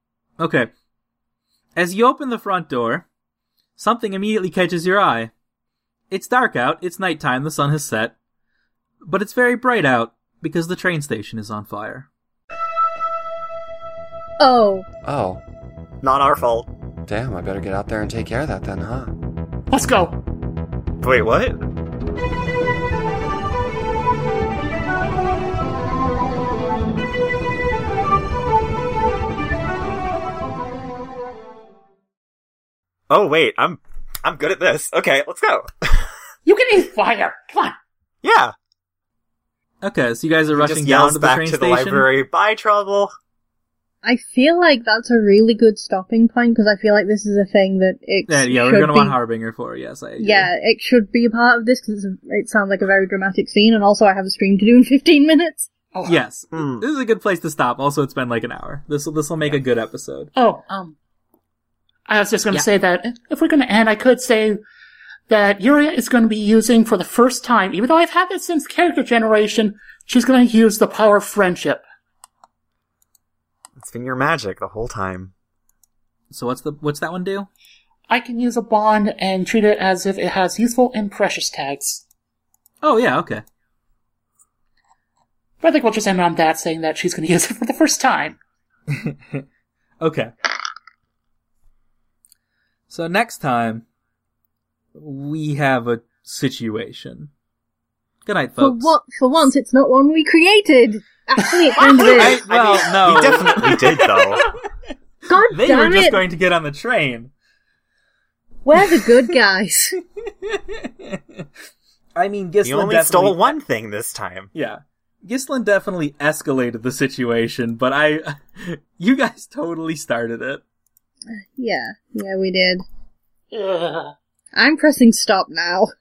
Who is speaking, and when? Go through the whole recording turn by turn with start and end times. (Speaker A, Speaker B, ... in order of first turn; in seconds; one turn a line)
Speaker A: 0.4-0.7
Speaker A: 1.8-3.0
Speaker A: 3.8-5.3
Speaker A: 6.1-8.1
Speaker A: 9.0-12.1
Speaker B: 14.4-14.9
Speaker C: 15.1-15.4
Speaker D: 16.0-16.7
Speaker C: 17.1-19.1
Speaker E: 19.7-20.2
Speaker D: 21.0-21.6
Speaker D: 33.1-36.1
Speaker E: 36.5-37.8
Speaker D: 38.2-38.5
Speaker A: 39.8-42.1
Speaker D: 40.5-43.1
Speaker B: 44.0-49.2
Speaker A: 48.3-50.5
Speaker B: 50.2-55.7
Speaker E: 55.9-56.2
Speaker A: 56.0-60.3
Speaker D: 56.5-56.8
Speaker E: 60.3-61.0
Speaker E: 62.1-64.6
Speaker E: 65.3-71.8
Speaker D: 73.8-75.3
Speaker A: 76.3-77.5
Speaker E: 78.1-82.0
Speaker A: 82.8-83.4
Speaker E: 85.6-88.4
Speaker A: 88.9-89.4
Speaker A: 90.0-90.3
Speaker A: 92.9-93.8
Speaker A: 94.9-97.3
Speaker A: 98.2-98.9
Speaker B: 98.6-102.4
Speaker D: 101.8-104.4
Speaker A: 102.1-104.5
Speaker B: 105.3-106.2
Speaker A: 105.5-107.3
Speaker B: 108.6-110.0
Speaker A: 110.4-111.2
Speaker A: 112.1-113.6
Speaker D: 112.6-114.5
Speaker A: 114.5-120.6
Speaker B: 121.5-122.8
Speaker E: 123.5-124.1
Speaker B: 124.5-125.9